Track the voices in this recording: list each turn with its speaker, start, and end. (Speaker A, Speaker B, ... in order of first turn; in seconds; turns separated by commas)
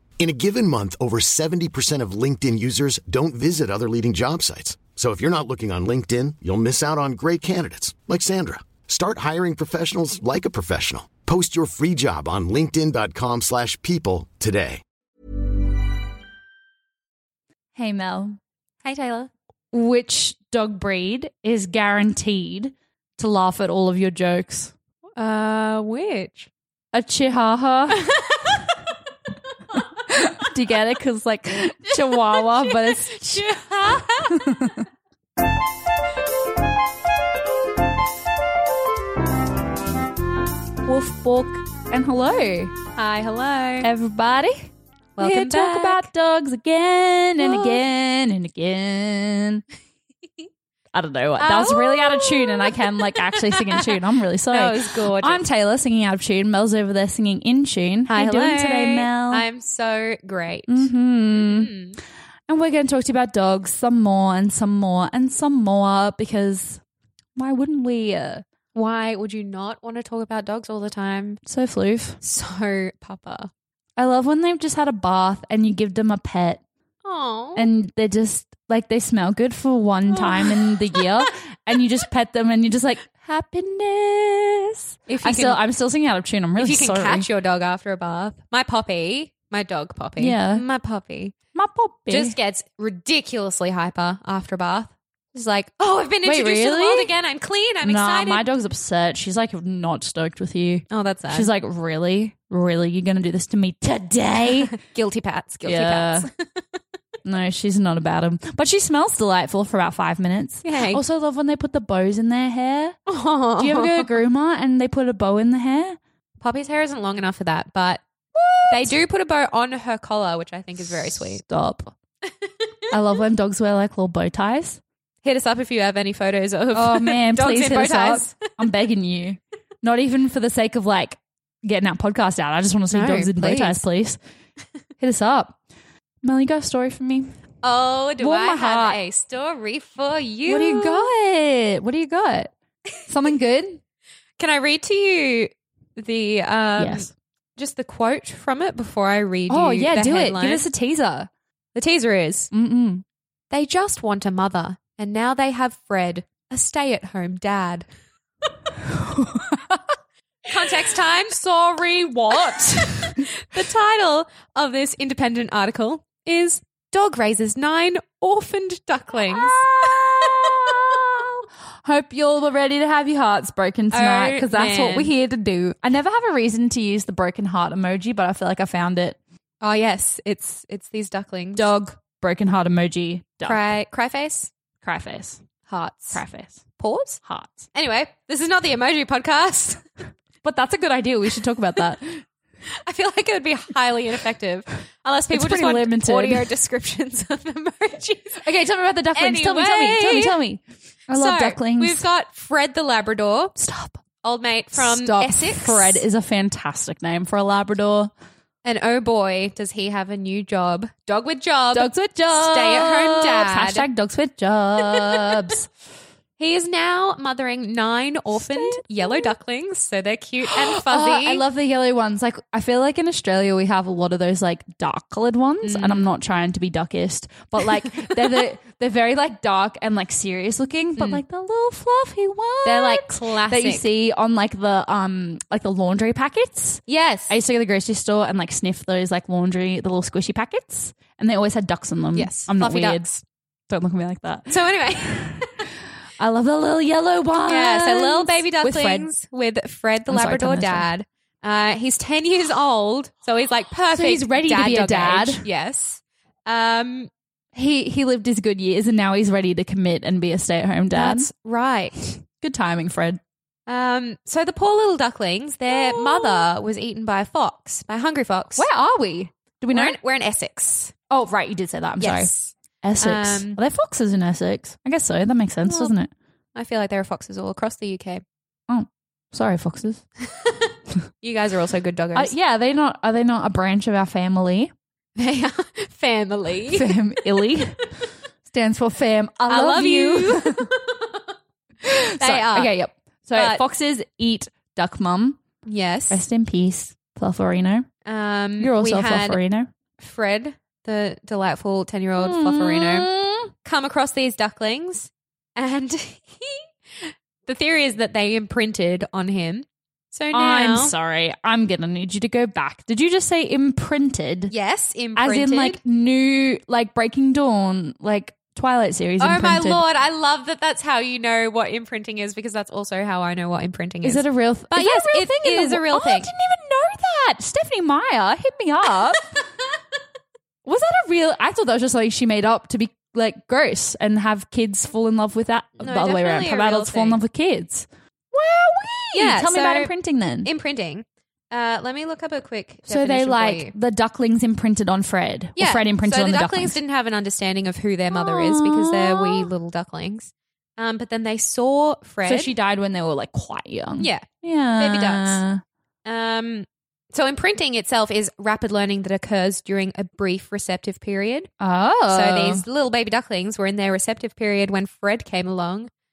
Speaker A: 0.2-14.8, Speaker B: 17.7-18.4, Speaker C: 18.8-19.3, Speaker B: 19.7-24.7, Speaker C: 25.2-26.5, Speaker B: 26.9-28.0, Speaker C: 28.0-28.5, Speaker B: 30.1-33.4, Speaker C: 32.3-34.6, Speaker B: 34.3-34.9, Speaker B: 40.8-42.7, Speaker C: 42.9-43.9, Speaker B: 43.8-49.6, Speaker C: 45.2-46.1, Speaker C: 47.4-47.8, Speaker B: 50.9-59.4, Speaker C: 51.4-53.9, Speaker C: 54.5-55.4, Speaker C: 58.1-62.0, Speaker B: 60.7-61.7, Speaker B: 62.5-66.8, Speaker B: 67.3-68.4, Speaker C: 68.7-71.4, Speaker B: 71.4-72.2, Speaker C: 72.2-73.5, Speaker B: 74.0-76.6, Speaker C: 77.0-77.7, Speaker B: 77.5-87.3, Speaker C: 80.1-80.7, Speaker C: 85.1-85.6, Speaker C: 86.6-91.3, Speaker B: 90.2-90.6, Speaker B: 91.5-92.4, Speaker C: 92.1-98.5, Speaker B: 96.2-97.1, Speaker B: 97.8-104.8, Speaker C: 100.9-101.5, Speaker C: 104.7-106.3, Speaker B: 105.6-106.3, Speaker B: 107.2-113.0, Speaker C: 110.6-111.0, Speaker C: 113.1-114.1, Speaker B: 113.6-116.0, Speaker C: 116.4-118.0, Speaker B: 118.3-119.0, Speaker C: 118.7-121.4, Speaker B: 121.3-121.9, Speaker B: 122.9-124.8, Speaker C: 125.2-128.4, Speaker B: 126.7-134.2, Speaker C: 132.9-133.8, Speaker B: 135.0-135.6, Speaker B: 136.2-137.3, Speaker C: 137.6-141.1, Speaker B: 138.2-139.0, Speaker B: 140.5-142.5, Speaker B: 143.1-143.8, Speaker C: 144.4-150.6, Speaker B: 146.8-147.1, Speaker B: 149.5-151.3, Speaker C: 151.7-152.5, Speaker B: 152.5-153.0, Speaker C: 153.5-157.9, Speaker B: 158.8-159.8, Speaker C: 160.5-161.4, Speaker B: 160.8-163.3, Speaker C: 162.4-170.9, Speaker B: 169.3-179.2, Speaker C: 173.9-175.1, Speaker C: 179.6-181.7, Speaker B: 181.6-183.7, Speaker C: 183.4-184.5, Speaker B: 184.8-185.4, Speaker C: 185.7-186.2, Speaker B: 186.1-186.7, Speaker C: 186.8-187.2, Speaker B: 187.2-187.7, Speaker C: 187.7-189.8, Speaker B: 190.4-192.2, Speaker C: 192.8-198.4, Speaker B: 195.3-196.5, Speaker B: 198.4-202.1, Speaker C: 199.1-200.4, Speaker C: 201.1-203.6, Speaker B: 203.6-204.0, Speaker C: 204.2-206.0, Speaker B: 204.7-208.1, Speaker C: 208.6-213.8, Speaker B: 211.7-215.7, Speaker C: 216.4-221.4, Speaker B: 218.4-219.3, Speaker B: 220.5-243.1, Speaker C: 225.6-226.1, Speaker C: 232.6-233.9, Speaker C: 236.9-237.4, Speaker C: 242.1-243.2, Speaker B: 243.7-245.4, Speaker C: 244.5-245.7, Speaker B: 246.2-249.1, Speaker C: 247.5-257.1, Speaker B: 250.1-250.9, Speaker B: 253.9-255.4, Speaker B: 257.5-261.3, Speaker C: 260.9-262.2, Speaker B: 262.2-263.2, Speaker C: 263.7-268.7, Speaker B: 265.7-266.5, Speaker B: 268.6-270.0, Speaker C: 269.7-270.9, Speaker B: 271.1-272.3, Speaker C: 272.0-273.6, Speaker B: 272.8-276.1, Speaker C: 275.6-275.9, Speaker C: 276.5-278.2, Speaker B: 278.7-280.0, Speaker C: 281.2-282.3, Speaker B: 282.1-284.7, Speaker C: 285.1-286.9, Speaker B: 286.7-287.8, Speaker B: 288.4-290.7, Speaker C: 289.5-291.2, Speaker B: 291.8-295.4, Speaker C: 292.2-292.7, Speaker C: 293.3-293.6, Speaker C: 295.6-296.2, Speaker B: 296.1-297.9, Speaker C: 298.0-299.4, Speaker B: 298.6-299.7, Speaker C: 300.0-303.1, Speaker B: 302.2-303.5, Speaker C: 303.6-310.9, Speaker B: 310.3-314.5, Speaker C: 314.5-315.8, Speaker B: 315.1-319.8, Speaker C: 319.2-326.3, Speaker B: 324.0-329.4, Speaker B: 330.6-340.5, Speaker C: 335.8-337.2, Speaker C: 339.1-343.7, Speaker B: 342.9-346.8, Speaker C: 345.6-352.5, Speaker B: 348.1-349.5, Speaker B: 352.2-355.6, Speaker C: 354.0-354.3, Speaker C: 354.8-355.4, Speaker C: 356.0-361.5, Speaker B: 361.6-362.6, Speaker C: 362.1-365.9